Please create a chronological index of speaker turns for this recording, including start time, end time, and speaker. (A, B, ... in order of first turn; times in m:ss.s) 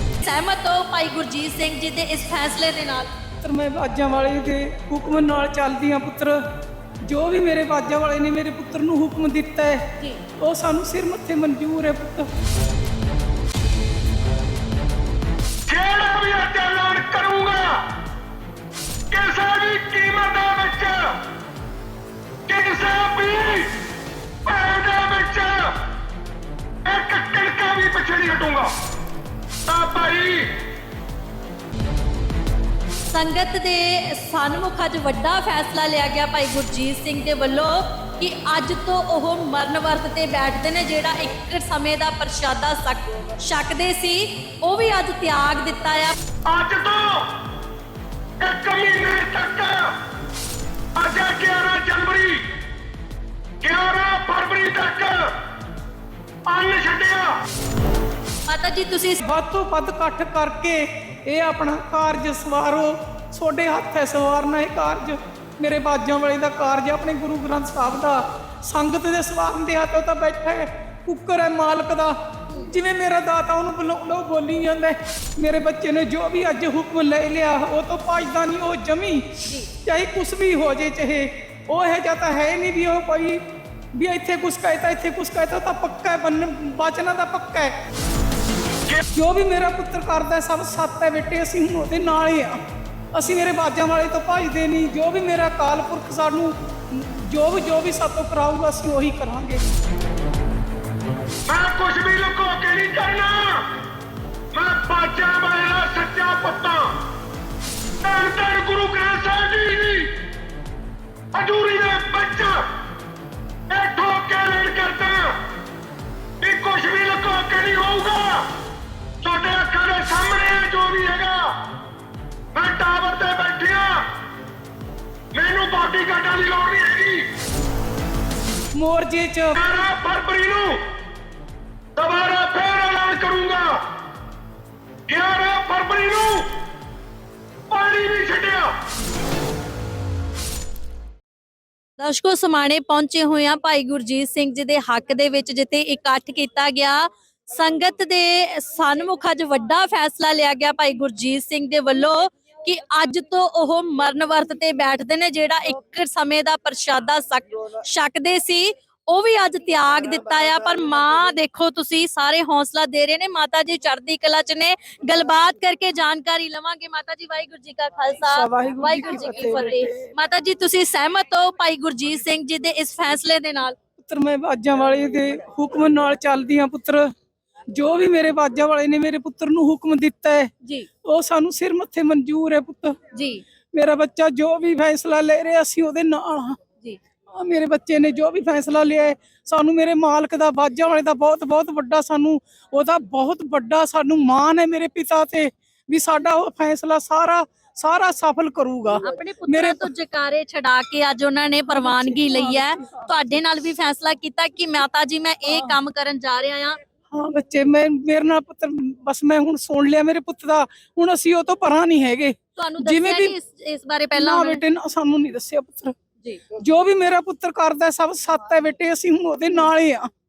0:00.2-0:03.1 A
0:03.4-0:06.4 B
0:07.0-0:09.8 B
0:10.4-0:12.3 B
0:15.7-0:17.9 C
0:19.1-0:21.2 C
0:22.5-0:23.7 C
0:24.4-0:25.8 C
0:26.8-0:28.7 C
0:29.6-0:30.5 C
0:33.1-0:46.2 A
0:46.4-0:47.4 C
0:48.4-0:50.0 C
0:50.9-0:52.4 C
0:53.6-0:55.4 C
0:56.5-0:57.4 C
0:58.5-0:59.2 A
0:59.2-1:23.4 B
1:19.4-1:19.7 A
1:23.9-1:27.7 B
1:29.1-1:32.6 B
1:33.1-1:39.6 B
1:41.4-1:43.7 C
1:44.5-1:47.0 C
1:48.0-1:50.2 C
1:51.3-1:52.7 C
1:53.7-1:55.4 C
1:56.4-1:58.5 C
1:59.2-2:01.6 C
2:02.5-2:04.1 C
2:05.3-2:07.3 C
2:08.7-2:09.6 B
2:09.5-2:10.8 C
2:12.0-2:13.8 C
2:15.1-2:16.5 C
2:17.7-2:18.7 C
2:22.0-2:53.8 A
2:48.2-2:50.1 B
2:54.0-2:57.1 B
2:57.7-3:00.5 B
3:01.0-3:03.0 B
3:03.1-3:03.4 A
3:03.7-3:06.6 B
3:07.3-3:19.9 B
3:19.0-3:26.8 A
3:21.7-3:23.1 B
3:25.5-3:25.8 B
3:27.1-3:33.3 B
3:32.6-3:34.6 A
3:34.1-3:35.9 B
3:36.6-3:40.1 B